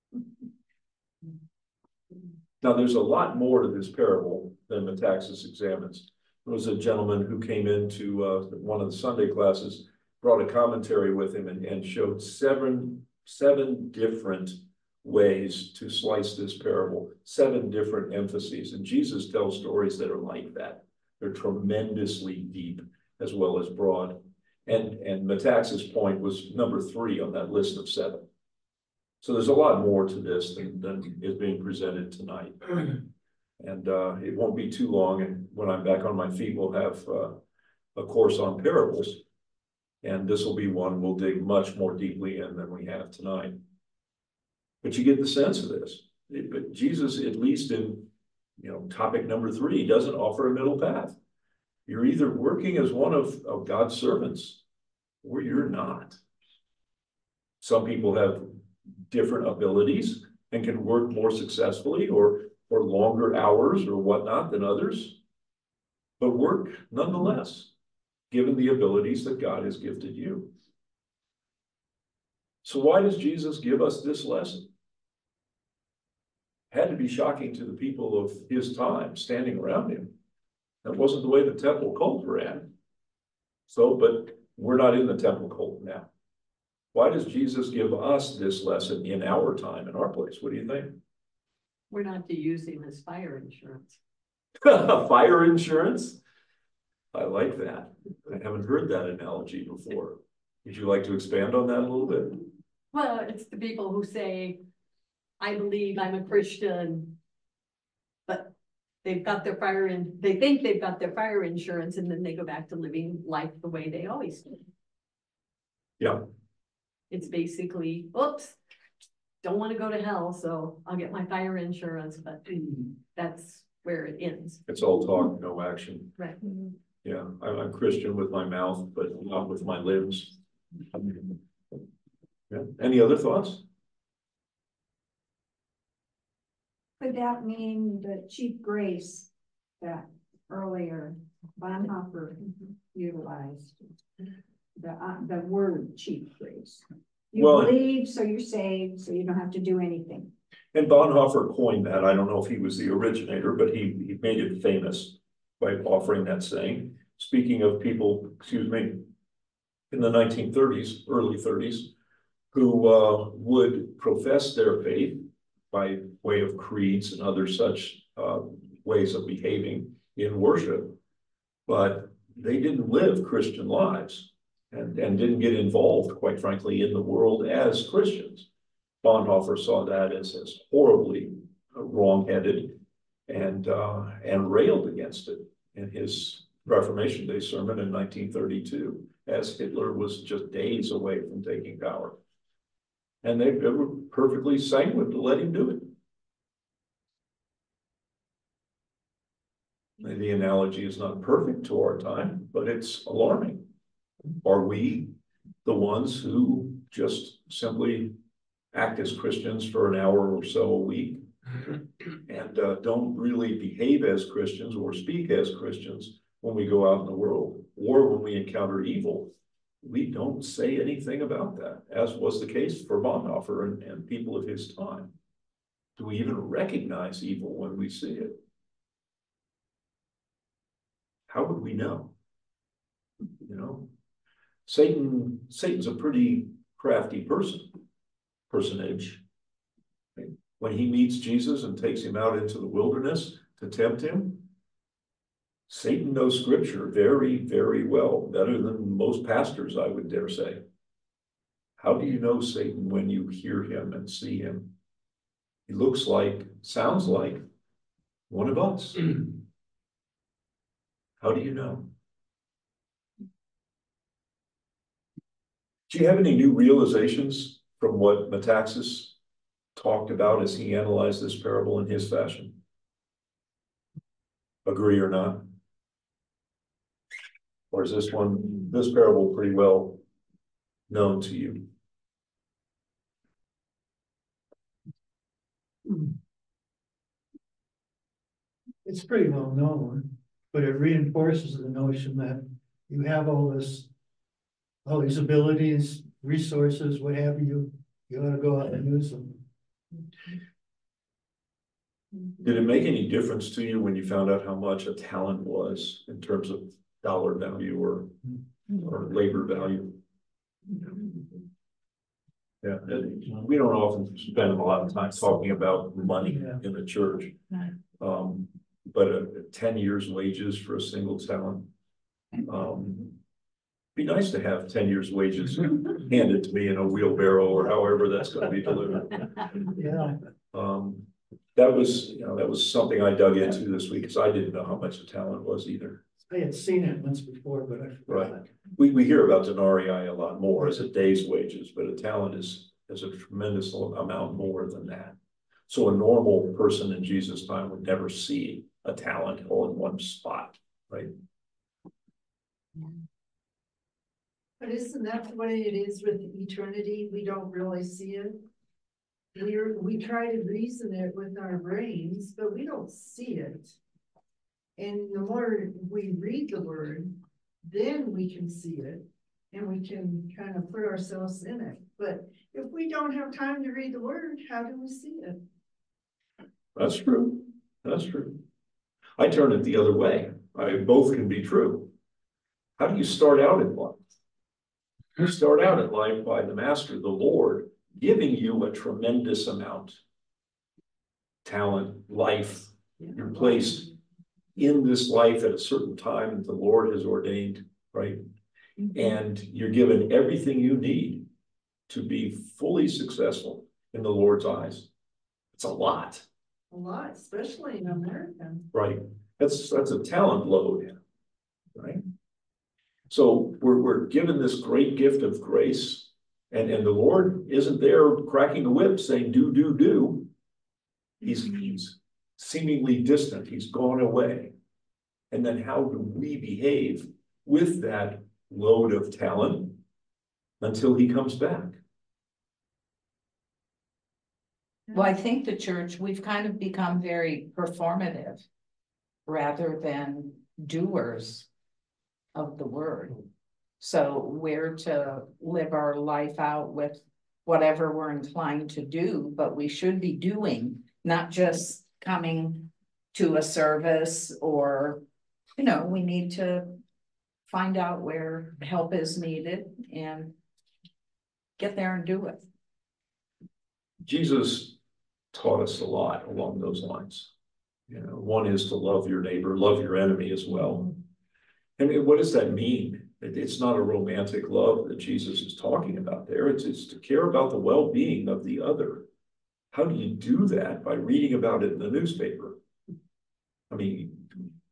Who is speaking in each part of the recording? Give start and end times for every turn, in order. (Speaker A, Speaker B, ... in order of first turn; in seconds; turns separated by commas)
Speaker A: 2.6-28.2, Speaker A: 29.2-33.0, Speaker A: 33.6-37.4, Speaker A: 37.9-39.2, Speaker A: 40.0-43.6, Speaker A: 44.8-51.1, Speaker A: 51.9-54.6, Speaker A: 55.2-56.2, Speaker A: 57.6-58.5, Speaker A: 59.1-65.2, Speaker A: 66.2-67.7, Speaker A: 68.3-70.5, Speaker A: 72.6-74.7, Speaker A: 76.7-80.1, Speaker A: 80.8-82.7, Speaker A: 83.7-86.1, Speaker A: 86.9-91.0, Speaker B: 91.9-94.0, Speaker A: 94.6-96.2, Speaker A: 97.1-102.4, Speaker B: 102.9-104.6, Speaker B: 105.4-107.1, Speaker B: 108.3-114.7, Speaker B: 117.1-118.6, Speaker B: 119.4-124.6, Speaker A: 124.7-126.2, Speaker B: 126.2-126.6, Speaker A: 127.0-130.4, Speaker A: 132.5-133.6, Speaker C: 137.0-143.8, Speaker C: 144.8-150.3, Speaker A: 147.3-147.8, Speaker A: 150.7-159.1, Speaker A: 159.9-161.9, Speaker A: 162.5-171.0, Speaker A: 171.7-178.5, Speaker A: 179.0-192.2, Speaker A: 193.2-195.9, Speaker A: 200.0-203.7, Speaker A: 204.4-205.1, Speaker A: 205.6-208.1, Speaker A: 208.7-211.2, Speaker A: 212.2-225.1, Speaker A: 225.9-228.4, Speaker A: 231.3-232.1, Speaker A: 233.4-233.9, Speaker A: 234.7-237.8, Speaker A: 238.5-239.2, Speaker A: 240.2-244.5, Speaker A: 245.7-250.6, Speaker A: 251.8-254.7, Speaker A: 255.7-257.4, Speaker A: 258.3-259.4, Speaker A: 261.2-261.9, Speaker A: 265.9-269.1, Speaker A: 269.7-272.6, Speaker A: 274.6-275.5, Speaker A: 277.7-280.0, Speaker A: 280.9-281.7, Speaker D: 285.9-286.1, Speaker D: 288.8-293.9, Speaker D: 294.8-299.4, Speaker A: 302.4-308.1, Speaker A: 308.8-310.0, Speaker A: 312.6-317.4, Speaker A: 318.0-321.7, Speaker A: 322.4-323.2, Speaker A: 323.9-329.3, Speaker D: 329.7-330.1, Speaker A: 330.5-336.0, Speaker D: 336.3-338.4, Speaker A: 338.1-345.2, Speaker A: 345.7-351.1, Speaker E: 354.6-358.4, Speaker E: 359.3-363.8, Speaker E: 364.8-375.4, Speaker A: 376.8-378.4, Speaker A: 379.2-381.9, Speaker A: 382.8-384.0, Speaker A: 385.2-390.0, Speaker A: 391.4-393.9, Speaker A: 394.5-398.2, Speaker A: 398.9-401.3, Speaker A: 401.9-404.9, Speaker A: 405.5-406.2, Speaker E: 406.7-408.7, Speaker A: 408.7-411.0, Speaker A: 411.7-412.0, Speaker A: 413.1-420.3, Speaker A: 421.2-424.5, Speaker A: 425.3-429.8, Speaker A: 430.6-431.8, Speaker F: 434.9-438.4, Speaker F: 439.3-441.5, Speaker F: 442.3-443.2, Speaker F: 443.8-455.0, Speaker F: 455.6-456.8, Speaker F: 457.4-460.3, Speaker F: 461.6-462.4, Speaker A: 464.0-464.8, Speaker A: 465.3-467.3, Speaker A: 467.9-471.0, Speaker A: 471.8-479.1, Speaker A: 479.7-482.6, Speaker A: 483.7-484.4